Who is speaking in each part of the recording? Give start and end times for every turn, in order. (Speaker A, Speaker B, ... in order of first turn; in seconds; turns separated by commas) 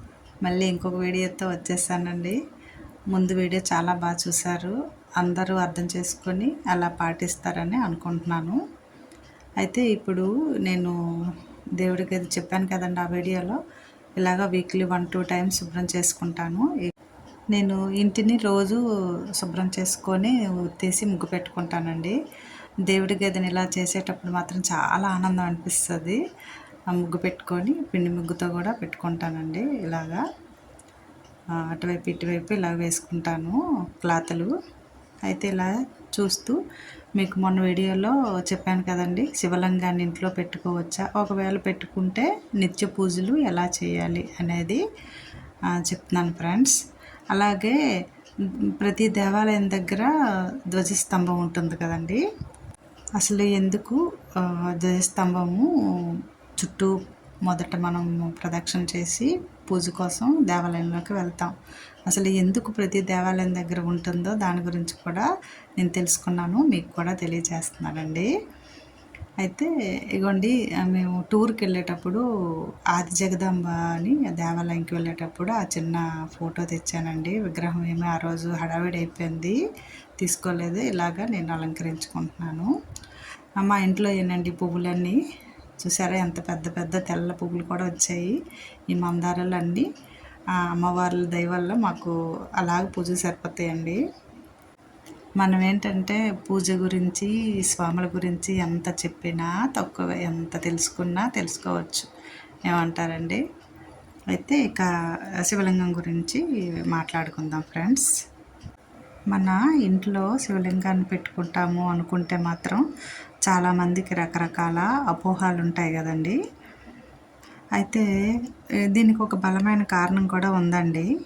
Speaker A: 0.4-2.4, Speaker A: 3.1-8.6, Speaker A: 9.6-10.9, Speaker A: 11.8-13.6, Speaker A: 14.2-16.9, Speaker A: 17.5-18.8, Speaker A: 19.4-22.2, Speaker A: 22.9-26.2, Speaker A: 26.9-30.2, Speaker A: 31.5-34.5, Speaker A: 35.2-36.6, Speaker A: 37.2-44.8, Speaker A: 45.7-46.8, Speaker A: 47.3-47.8, Speaker A: 48.8-50.1, Speaker A: 50.7-52.2, Speaker A: 53.2-61.5, Speaker A: 62.1-65.3, Speaker A: 65.8-68.3, Speaker A: 69.4-72.2, Speaker A: 72.9-79.6, Speaker A: 80.2-82.7, Speaker A: 83.6-85.2, Speaker A: 85.8-88.4, Speaker A: 88.9-89.9, Speaker A: 90.6-94.0, Speaker A: 95.4-102.1, Speaker A: 102.7-103.4, Speaker A: 104.3-104.9, Speaker A: 105.4-108.1, Speaker A: 109.3-112.9, Speaker A: 113.5-116.4, Speaker A: 117.8-118.1, Speaker A: 118.9-121.1